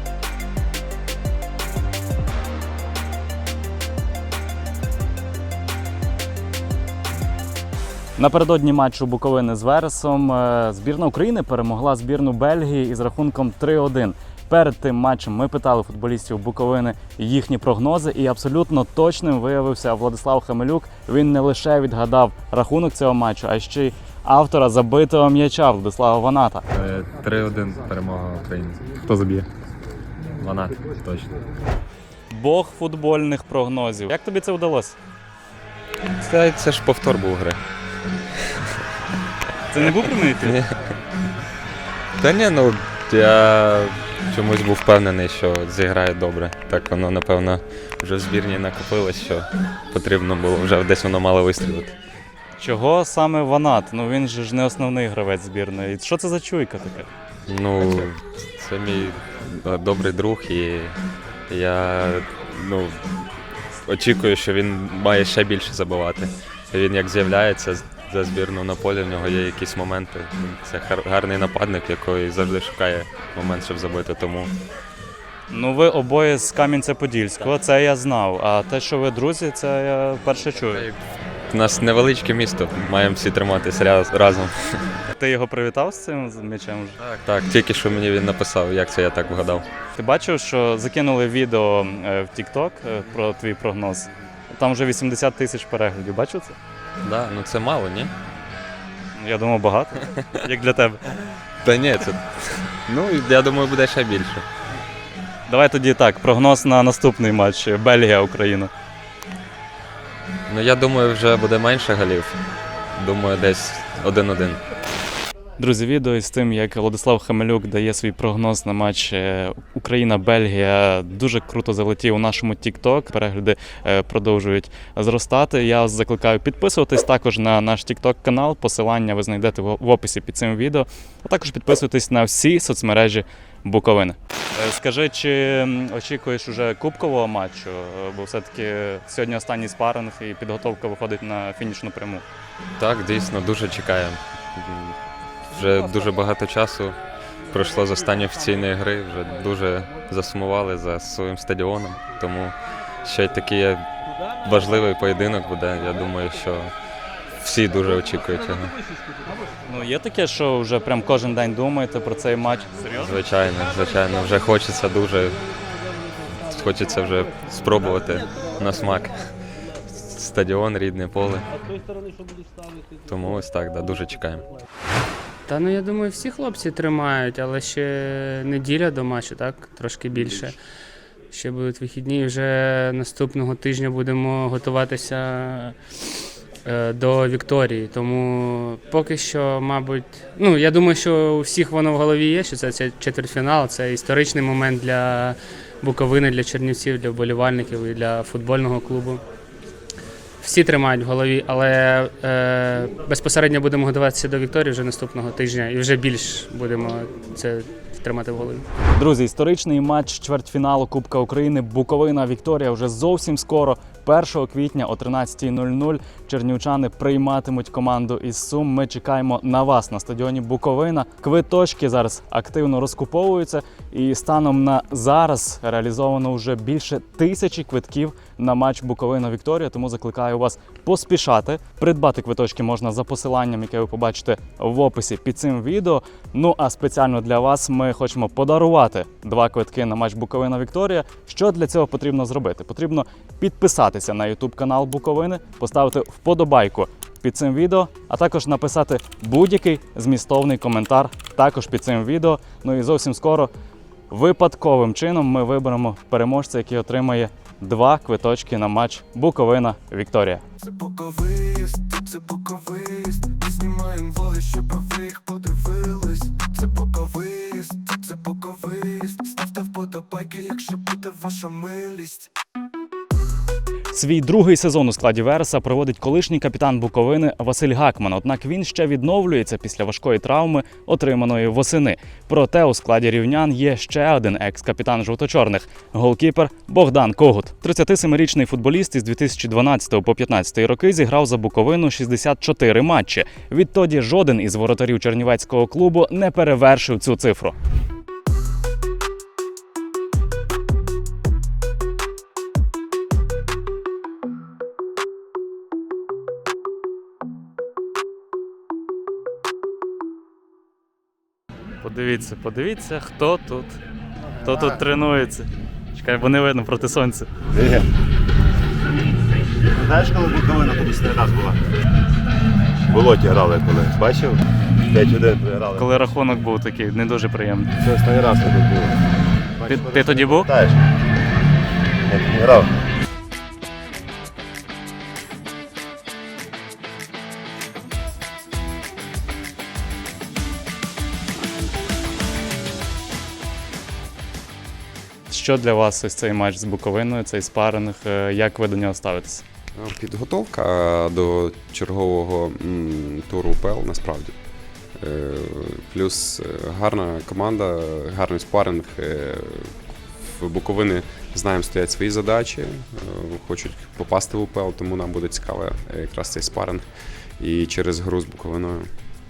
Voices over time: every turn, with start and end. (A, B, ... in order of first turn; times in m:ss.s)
0:08.2-0:26.7 A
0:26.7-0:29.0 B
0:29.1-0:29.4 A
0:30.4-0:31.4 B
0:32.3-0:35.0 A
0:36.2-0:37.6 B
0:39.7-0:40.6 A
0:39.8-0:40.7 B
0:42.2-0:52.0 B
0:52.6-0:57.1 A
0:57.5-1:01.0 B
1:01.5-1:14.5 B
1:15.5-1:20.8 A
1:20.7-1:21.0 B
1:21.5-1:24.8 B
1:25.2-1:27.0 A
1:27.0-1:29.7 B
1:30.0-1:36.6 A
1:37.0-1:38.1 B
1:39.2-1:41.0 A
1:41.6-1:44.4 B
1:45.5-1:48.7 A
1:50.5-1:52.4 B
1:52.9-1:54.6 B
1:55.6-2:22.2 A
2:22.8-2:25.0 B
2:25.5-2:33.9 B
2:34.4-2:36.7 B
2:37.4-2:38.8 B
2:39.7-2:43.1 A
2:43.0-2:45.4 B
2:46.4-2:49.2 B
2:49.9-2:51.5 B
2:53.1-2:54.5 B
2:55.5-3:00.6 C
3:01.3-3:05.8 C
3:06.6-3:19.2 C
3:20.4-3:28.7 C
3:29.0-4:13.5 A
4:14.1-4:20.4 A
4:20.6-4:32.3 D
4:33.9-4:57.6 A
5:11.8-5:13.8 A
5:14.4-5:14.8 E
5:14.4-5:17.3 A
5:17.5-5:17.9 E
5:19.8-5:21.6 E
5:22.9-5:25.9 E
5:25.8-5:27.7 A
5:27.8-5:29.0 E
5:29.6-5:30.8 E
5:29.7-5:30.5 A
5:32.1-5:32.7 E
5:45.3-5:49.4 A
5:49.8-5:54.4 F
5:55.0-6:06.8 F
6:07.4-6:08.9 F